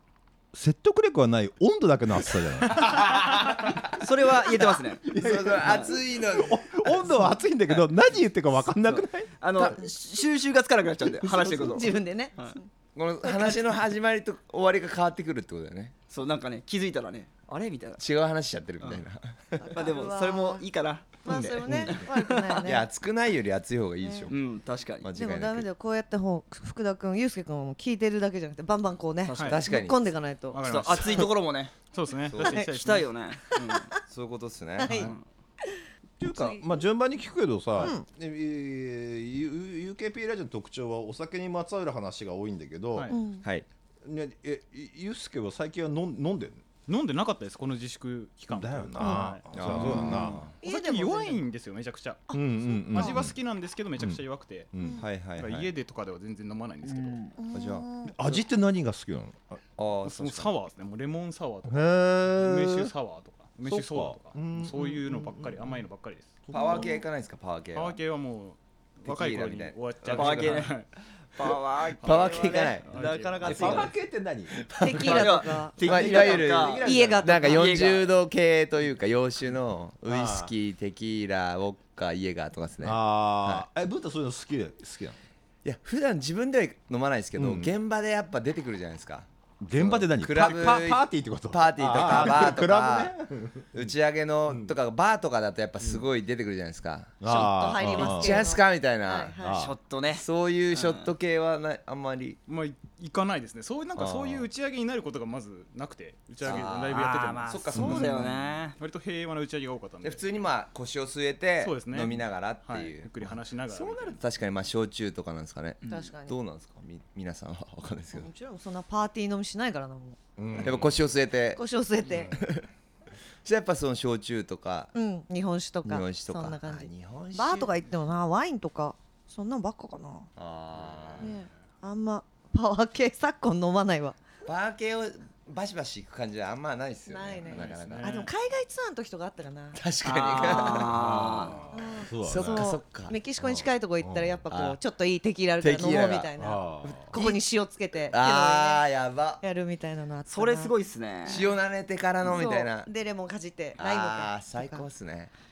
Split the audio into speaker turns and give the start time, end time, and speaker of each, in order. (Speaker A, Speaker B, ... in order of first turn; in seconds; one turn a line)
Speaker A: 0.5-4.3
Speaker B: 3.9-5.0
Speaker A: 5.0-9.8
Speaker C: 5.1-6.6
Speaker B: 8.9-12.6
Speaker D: 11.3-12.7
Speaker C: 12.9-15.9
Speaker D: 13.2-13.6
Speaker B: 16.1-18.0
Speaker C: 18.0-19.8
Speaker D: 19.6-20.6
Speaker B: 19.7-22.7
Speaker D: 21.2-22.9
Speaker C: 21.6-21.9
Speaker C: 22.6-24.4
Speaker D: 24.0-24.3
Speaker B: 24.3-25.1
Speaker C: 25.0-25.7
Speaker D: 25.1-30.6
Speaker B: 29.2-29.6
Speaker E: 29.4-29.6
Speaker C: 29.4-30.1
Speaker E: 30.5-33.1
Speaker B: 30.6-31.7
Speaker C: 32.3-32.7
Speaker B: 32.4-33.9
Speaker C: 34.1-35.1
Speaker D: 34.8-35.1
Speaker E: 34.8-35.2
Speaker B: 34.8-35.2
Speaker D: 35.7-36.6
Speaker A: 36.2-43.2
Speaker D: 37.8-38.0
Speaker E: 43.0-43.2
Speaker D: 43.1-43.5
Speaker A: 44.0-46.6
Speaker E: 46.9-49.5
Speaker A: 48.5-50.4
Speaker D: 49.0-51.4
Speaker C: 49.5-50.6
Speaker E: 50.6-52.3
Speaker D: 52.3-53.2
Speaker A: 52.3-53.3
Speaker E: 52.9-54.7
Speaker A: 54.7-55.0
Speaker C: 55.0-55.7
Speaker E: 55.4-57.2
Speaker B: 56.9-57.3
Speaker D: 57.4-58.2
Speaker C: 57.5-57.9
Speaker A: 58.0-59.6
Speaker C: 59.8-60.5
Speaker E: 60.0-66.4
Speaker A: 61.7-62.9
Speaker A: 63.7-65.7
Speaker A: 66.5-66.8
Speaker C: 66.5-68.0
Speaker D: 66.5-67.0
Speaker E: 67.7-70.9
Speaker C: 69.1-70.7
Speaker B: 70.1-70.7
Speaker B: 71.4-73.9
Speaker C: 72.0-72.9
Speaker D: 72.1-72.8
Speaker E: 72.8-73.5
Speaker A: 73.4-75.1
Speaker C: 74.6-83.7
Speaker D: 74.8-76.2
Speaker B: 75.0-76.8
Speaker A: 75.9-77.5
Speaker D: 76.8-77.9
Speaker B: 77.5-78.1
Speaker A: 80.1-80.5
Speaker A: 82.8-85.2
Speaker C: 85.6-93.1
Speaker A: 87.4-87.7
Speaker A: 89.6-93.9
Speaker C: 93.7-99.3
Speaker A: 94.5-94.7
Speaker A: 97.2-98.5
Speaker D: 97.2-99.7
Speaker A: 99.4-99.8
Speaker B: 99.5-101.1
Speaker C: 100.1-102.4
Speaker E: 102.5-107.5
Speaker C: 104.0-104.5
Speaker C: 106.4-108.4
Speaker B: 106.4-108.8
Speaker A: 107.8-108.2
Speaker E: 108.8-110.2
Speaker C: 110.0-118.3
Speaker E: 111.6-114.2
Speaker D: 115.9-116.4
Speaker D: 118.1-120.2
Speaker A: 120.4-121.0
Speaker C: 120.6-121.6
Speaker D: 121.6-122.4
Speaker C: 122.2-122.7
Speaker C: 123.5-124.9
Speaker D: 124.9-130.3
Speaker C: 125.8-127.7
Speaker C: 130.4-131.3
Speaker D: 131.2-134.2
Speaker C: 134.5-138.3
Speaker D: 137.1-139.8
Speaker E: 137.4-138.3
Speaker C: 139.7-141.2
Speaker B: 140.0-141.6
Speaker A: 140.9-142.7
Speaker D: 141.7-148.8
Speaker C: 142.2-143.2
Speaker A: 143.4-144.4
Speaker C: 144.5-144.8
Speaker C: 145.6-146.3
Speaker A: 146.4-147.1
Speaker C: 147.1-147.3
Speaker C: 148.1-149.4
Speaker D: 149.4-150.7
Speaker B: 150.3-151.5
Speaker C: 151.3-152.9
Speaker D: 152.2-154.8
Speaker C: 153.8-155.3